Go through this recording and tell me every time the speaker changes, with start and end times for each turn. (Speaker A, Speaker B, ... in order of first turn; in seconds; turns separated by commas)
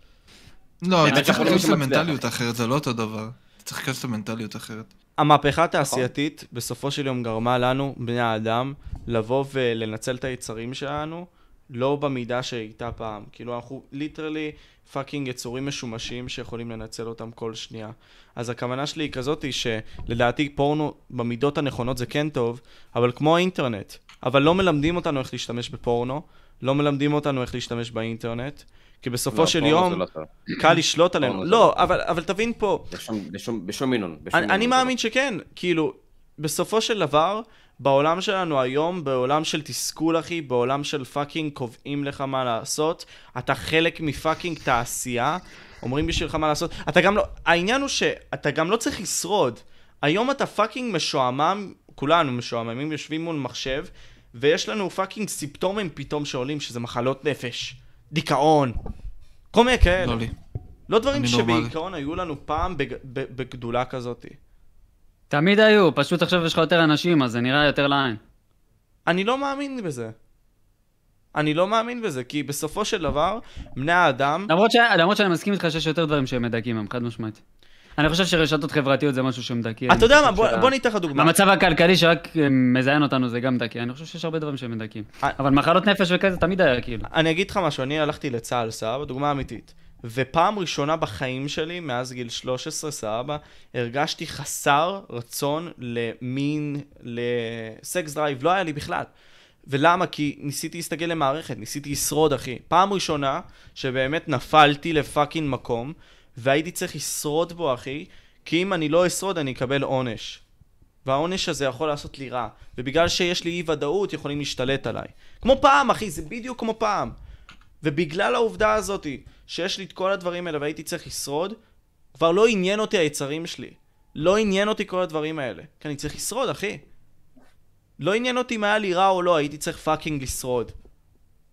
Speaker A: 0.8-4.9, Speaker B: 1.0-2.3, Speaker C: 1.1-1.8, Speaker D: 5.2-30.0, Speaker B: 29.3-30.3, Speaker D: 30.6-32.9, Speaker B: 31.2-31.9, Speaker B: 32.9-34.9, Speaker D: 34.3-58.8, Speaker D: 59.5-60.2, Speaker A: 60.0-60.3, Speaker D: 60.9-64.4, Speaker A: 61.1-61.7, Speaker C: 65.3-68.2, Speaker D: 69.1-70.1, Speaker D: 71.3-74.5, Speaker C: 74.5-77.4, Speaker C: 78.0-87.1, Speaker D: 79.9-81.3, Speaker D: 87.1-99.1, Speaker D: 99.7-110.4, Speaker D: 111.0-117.2, Speaker D: 117.8-121.6, Speaker D: 122.2-126.8, Speaker D: 128.0-130.7